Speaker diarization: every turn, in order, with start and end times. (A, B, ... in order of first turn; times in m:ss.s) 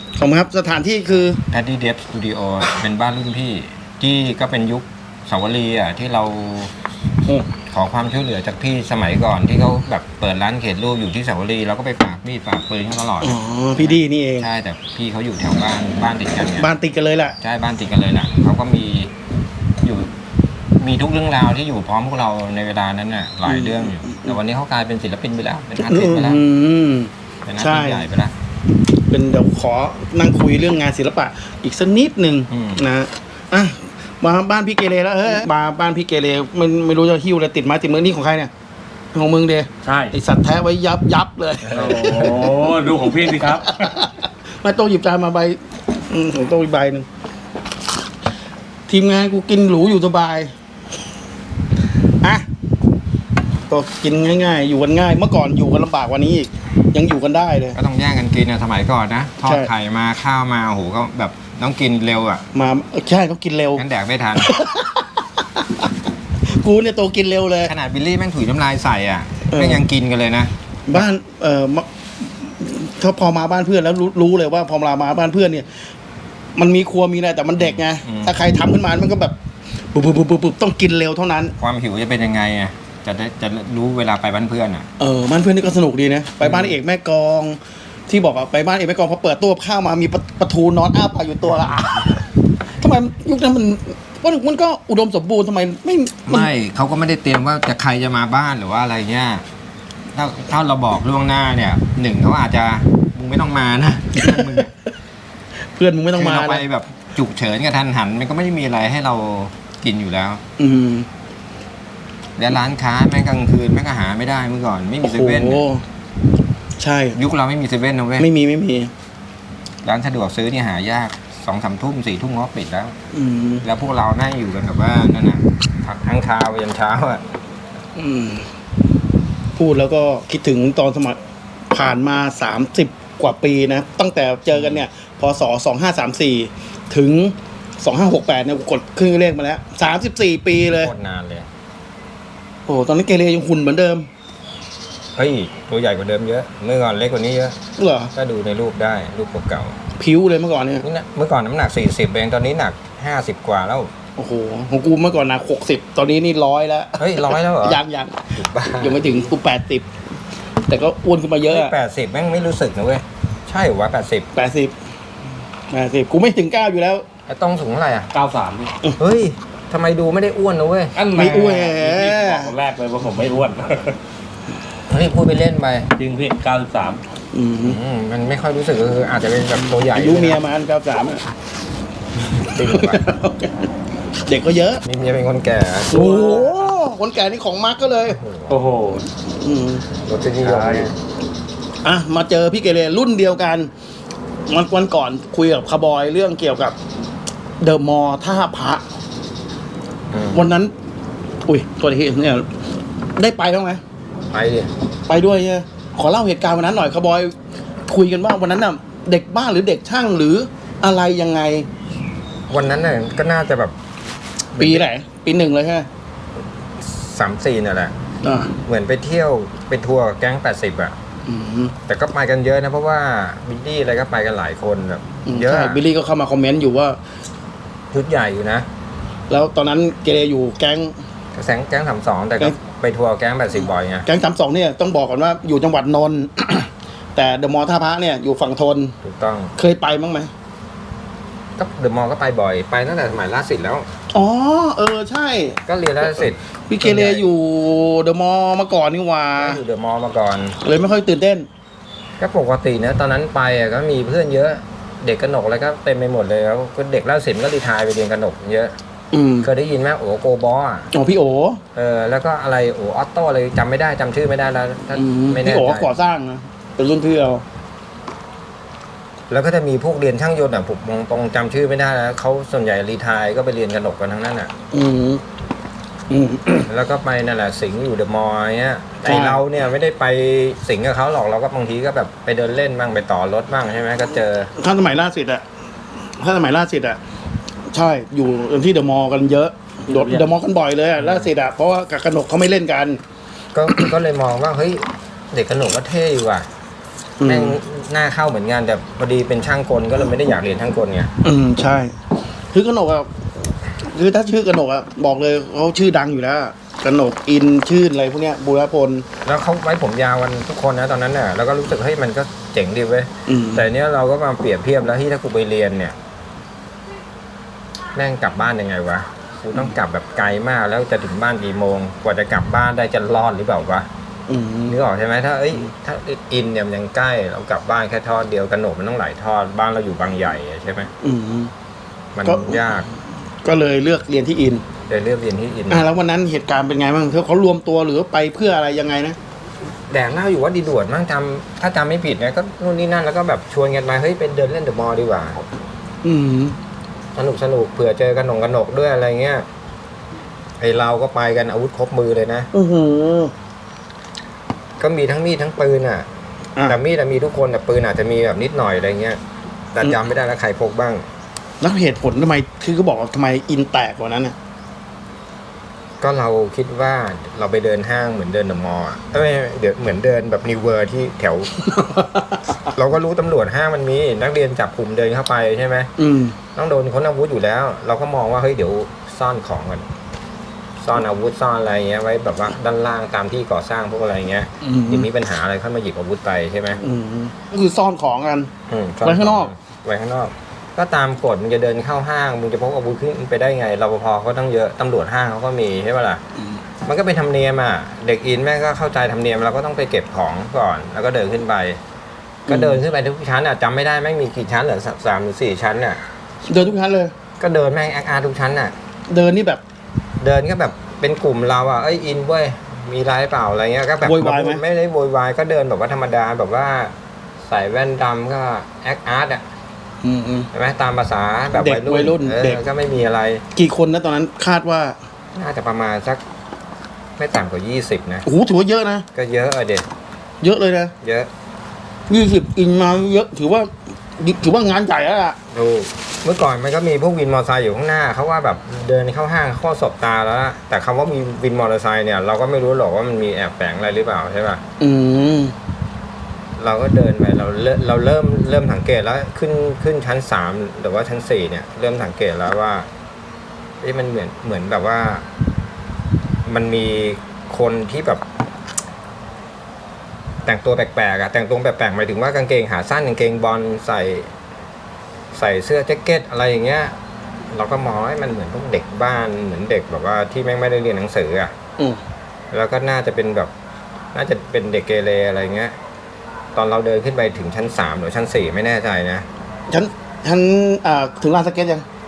0:00.2-0:01.4 A
0:01.5-0:06.7 B
0:07.6-0:16.7 B
0:13.2-0:14.5 A
0:16.6-0:17.4 A
0:17.4-0:19.1 B
0:19.8-0:20.1 B
0:20.8-0:26.4 B
0:23.4-0:24.3 A
0:25.8-0:28.1 A
0:27.4-0:28.3 B
0:29.1-0:38.5 A
0:32.5-0:32.8 B
0:39.1-0:42.6 A
0:39.8-0:40.1 C
0:41.7-0:43.9 C
0:41.7-0:42.3 B
0:43.4-0:47.1 A
0:48.9-0:50.5 A
0:52.2-0:52.4 A
0:53.7-0:57.8 A
0:57.7-1:02.4 B
0:59.4-0:59.7 A
1:02.5-1:03.8 A
1:03.8-1:04.5 B
1:04.4-1:05.9 A
1:06.4-1:07.7 A
1:07.6-1:11.0 B
1:09.5-1:09.8 A
1:10.9-1:15.9 A
1:16.6-1:19.3 A
1:17.6-1:18.3 B
1:19.9-1:21.5 A
1:21.6-1:24.9 B
1:25.0-1:32.2 A
1:26.4-1:26.8 B
1:32.8-1:36.5 A
1:36.3-1:39.4 B
1:40.1-1:44.7 B
1:44.2-1:44.7 A
1:45.6-1:46.6 A
1:46.1-1:50.4 B
1:50.6-1:51.1 A
1:52.4-1:55.6 B
1:55.0-1:55.8 A
1:56.8-1:57.2 A
1:57.1-1:58.3 B
1:58.2-1:58.9 A
1:59.8-2:03.0 B
2:03.1-2:03.6 A
2:03.6-2:07.2 B
2:08.0-2:08.5 A
2:09.6-2:11.2 A
2:11.7-2:20.9 A
2:14.5-2:14.8 B
2:20.7-2:21.5 B
2:22.7-2:24.1 A
2:25.1-2:27.6 B
2:27.8-2:28.1 A
2:28.1-2:29.8 B
2:30.0-2:30.8 A
2:30.8-2:33.9 B
2:34.2-2:39.9 A
2:37.0-2:37.8 B
2:38.3-2:39.1 B
2:40.7-2:41.7 A
2:41.5-2:44.3 B
2:44.3-2:44.7 A
2:45.7-2:47.0 A
2:47.3-2:48.1 B
2:48.1-2:48.7 C
2:49.0-2:50.9 B
2:50.9-2:54.0 C
2:51.1-2:52.5 A
2:54.9-2:55.9 B
2:56.0-2:57.0 C
2:57.3-2:57.8 A
2:57.6-3:00.4 B
2:59.7-3:01.2 A
3:02.2-3:03.0 B
3:02.5-3:03.7 A
3:04.2-3:04.8 A
3:04.8-3:06.3 B
3:05.9-3:08.2 A
3:08.1-3:08.6 B
3:08.5-3:09.0 C
3:09.2-3:09.8 A
3:10.0-3:10.9 B
3:10.4-3:10.9 C
3:11.8-3:13.7 A
3:14.5-3:16.8 A
3:17.6-3:18.8 A
3:20.1-3:20.5 B
3:20.3-3:20.7 A
3:21.5-3:22.5 A
3:23.2-3:23.8 A
3:24.3-3:24.7 B
3:25.1-3:27.3 A
3:27.9-3:31.7 A
3:32.5-3:33.7 B
3:34.5-3:34.9 B
3:34.6-3:35.9 A
3:36.8-3:37.9 B
3:38.2-3:38.5 A
3:38.6-3:41.0 B
3:41.2-3:41.7 A
3:41.9-3:45.8 B
3:45.2-3:47.0 A
3:47.9-3:48.7 B
3:49.3-3:50.9 A
3:51.3-3:54.1 B
3:54.0-3:58.9 A
3:59.0-3:59.5 B
3:59.6-4:00.3 A
4:01.6-4:03.9 B
4:04.1-4:05.6 A
4:05.6-4:07.3 B
4:06.7-4:09.6 A
4:09.4-4:10.6 B
4:10.6-4:11.5 A
4:12.2-4:18.7 B
4:19.1-4:19.5 A
4:19.4-4:20.9 B
4:20.9-4:21.6 A
4:21.7-4:25.9 B
4:24.9-4:27.4 A
4:29.3-4:34.5 B
4:34.7-4:35.2 A
4:36.1-4:36.7 A
4:36.7-4:44.5 B
4:39.0-4:39.4 A
4:44.6-4:45.4 A
4:46.2-4:47.0 A
4:47.7-4:53.0 A
4:49.9-4:50.3 C
4:51.0-4:51.3 B
4:53.5-4:56.5 B
4:57.2-4:57.6 A
4:57.2-5:01.1 B
5:01.2-5:01.9 A
5:02.5-5:03.1 A
5:03.8-5:09.0 A
5:09.2-5:16.0 B
5:13.2-5:13.7 A
5:18.0-5:23.9 B
5:24.3-5:24.8 A
5:24.7-5:30.9 B
5:31.0-5:31.5 A
5:32.1-5:32.8 B
5:32.2-5:32.8 A
5:33.4-5:34.6 A
5:34.9-5:35.9 B
5:35.7-5:39.2 A
5:39.9-5:45.4 B
5:46.0-5:46.6 A
5:47.1-5:49.4 B
5:50.6-5:52.5 B
5:52.5-5:53.3 A
5:54.8-5:56.0 B
5:56.6-5:59.2 B
5:59.7-6:01.0 B
6:01.6-6:04.3 A
6:06.0-6:11.5 B
6:11.6-6:12.6 A
6:12.7-6:15.9 B
6:16.0-6:16.4 A
6:16.5-6:19.8 B
6:20.8-6:26.8 B
6:24.6-6:25.1 A
6:26.8-6:28.5 A
6:28.7-6:36.2 B
6:29.0-6:29.5 A
6:36.8-6:41.8 B
6:42.5-6:42.8 A
6:42.5-6:46.0 B
6:46.5-6:47.1 A
6:47.4-6:48.7 B
6:49.1-6:49.6 A
6:50.2-6:56.9 B
6:54.0-6:54.6 A
6:57.4-6:59.4 B
7:00.0-7:00.5 A
7:00.5-7:03.4 B
7:01.5-7:02.6 A
7:03.5-7:05.0 A
7:05.3-7:06.2 B
7:07.2-7:08.2 B
7:08.2-7:09.0 A
7:09.1-7:09.8 B
7:10.4-7:10.9 A
7:11.0-7:11.3 B
7:12.1-7:15.4 A
7:15.5-7:24.6 B
7:24.8-7:25.5 A
7:26.6-7:32.9 B
7:33.8-7:35.2 B
7:36.4-7:38.2 B
7:40.4-7:44.3 B
7:45.3-7:46.9 B
7:47.5-7:51.5 B
7:52.5-7:53.5 B
7:54.1-7:55.7 B
7:56.5-7:59.2 B
7:59.7-8:01.8 A